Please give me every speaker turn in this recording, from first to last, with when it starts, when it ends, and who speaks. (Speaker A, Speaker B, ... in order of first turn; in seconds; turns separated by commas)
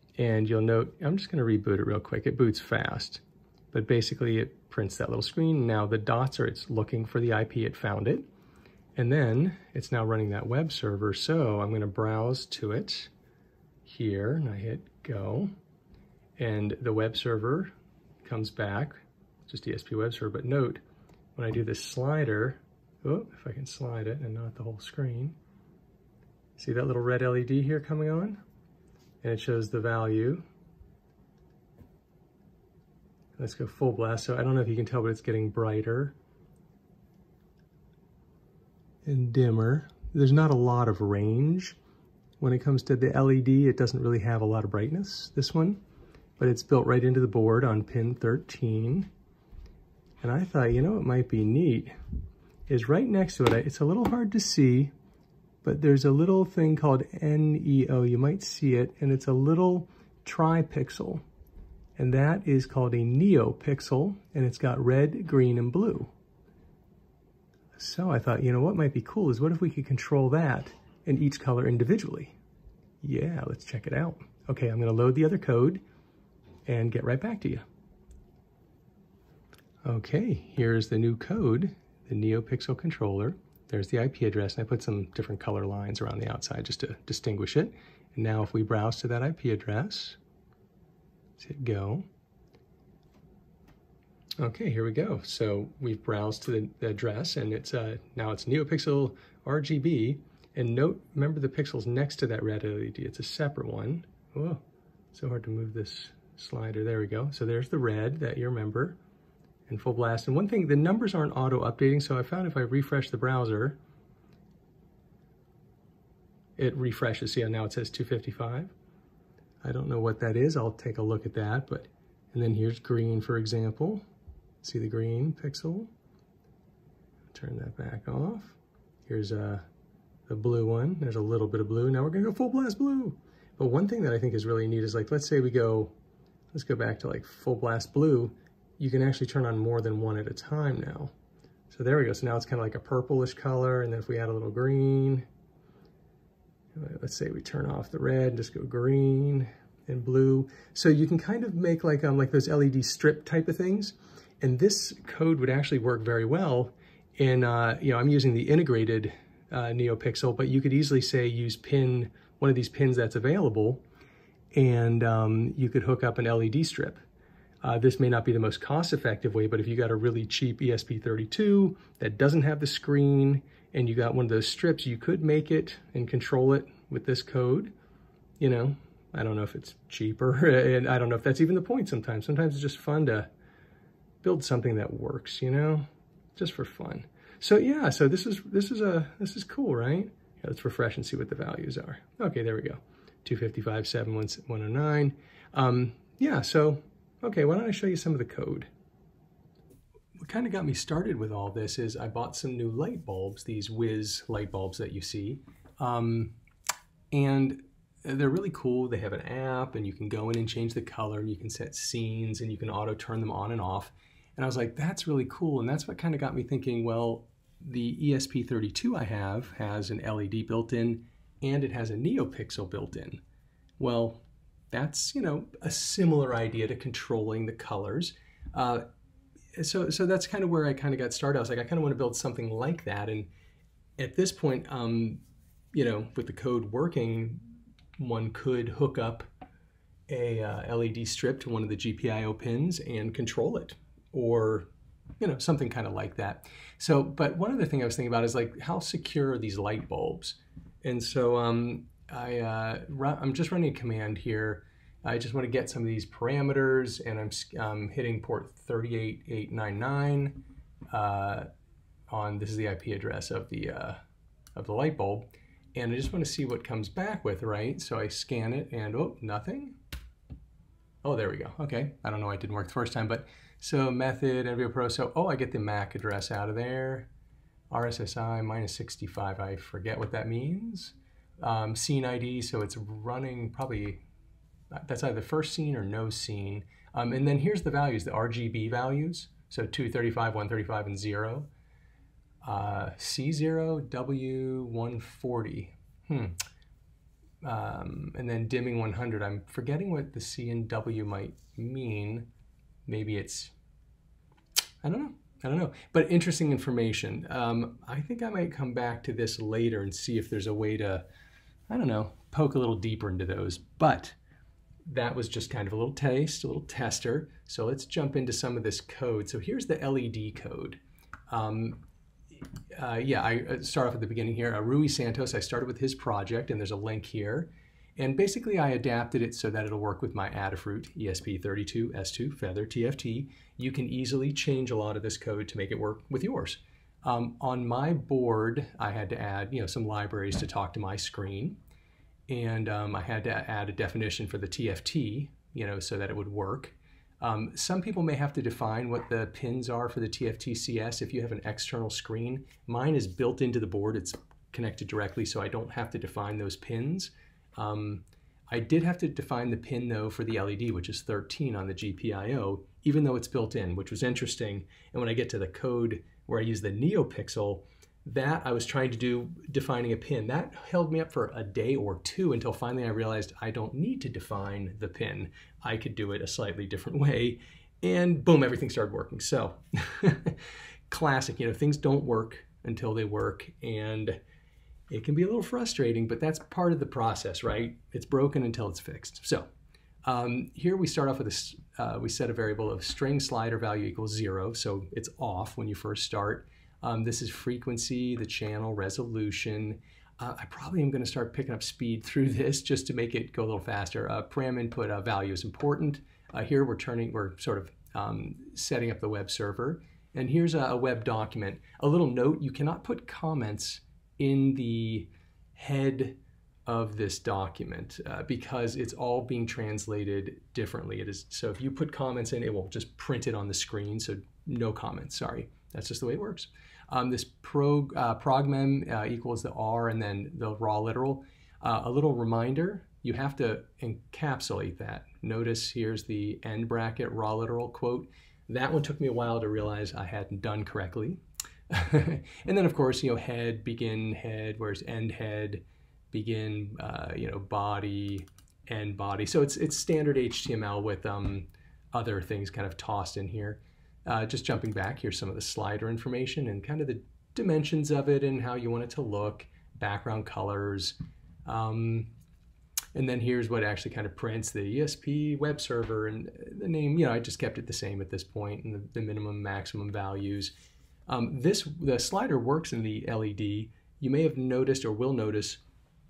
Speaker A: 0.2-8.2, Speaker A: 9.0-13.1, Speaker A: 13.8-15.5, Speaker A: 16.4-17.7, Speaker A: 18.2-20.8, Speaker A: 21.4-25.4, Speaker A: 26.6-28.4, Speaker A: 29.2-30.4, Speaker A: 33.4-36.1, Speaker A: 39.0-41.8, Speaker A: 42.4-45.8, Speaker A: 46.4-49.1, Speaker A: 50.2-51.9, Speaker A: 52.7-54.9, Speaker A: 55.6-61.2, Speaker A: 62.0-66.1, Speaker A: 67.7-72.3, Speaker A: 73.0-75.8, Speaker A: 76.7-77.6, Speaker A: 79.8-90.2, Speaker A: 91.4-92.0, Speaker A: 94.4-104.6, Speaker A: 105.1-109.0, Speaker A: 109.7-113.8, Speaker A: 116.6-118.7, Speaker A: 119.6-124.0, Speaker A: 124.6-125.9, Speaker A: 127.3-129.6, Speaker A: 130.3-135.9, Speaker A: 136.5-141.1, Speaker A: 141.7-145.2, Speaker A: 146.7-163.8, Speaker A: 164.5-167.0, Speaker A: 167.6-177.7, Speaker A: 178.4-183.3, Speaker A: 184.2-198.7, Speaker A: 200.2-206.3, Speaker A: 207.1-223.2, Speaker A: 223.8-228.8, Speaker A: 229.6-233.3, Speaker A: 234.0-235.2, Speaker A: 235.7-237.4, Speaker A: 238.0-239.3, Speaker A: 240.1-244.7, Speaker A: 245.2-261.5, Speaker A: 262.1-264.0, Speaker A: 264.5-269.8, Speaker A: 271.0-277.1, Speaker A: 277.7-284.0, Speaker A: 284.7-291.5, Speaker A: 292.4-296.4, Speaker A: 297.4-302.3, Speaker A: 302.9-303.5, Speaker A: 304.8-311.1, Speaker A: 311.7-314.2, Speaker A: 314.9-321.8, Speaker A: 322.7-341.6, Speaker A: 342.3-380.4, Speaker A: 380.9-384.2, Speaker A: 384.9-389.5, Speaker A: 390.0-462.1, Speaker A: 462.9-470.5, Speaker A: 471.1-475.6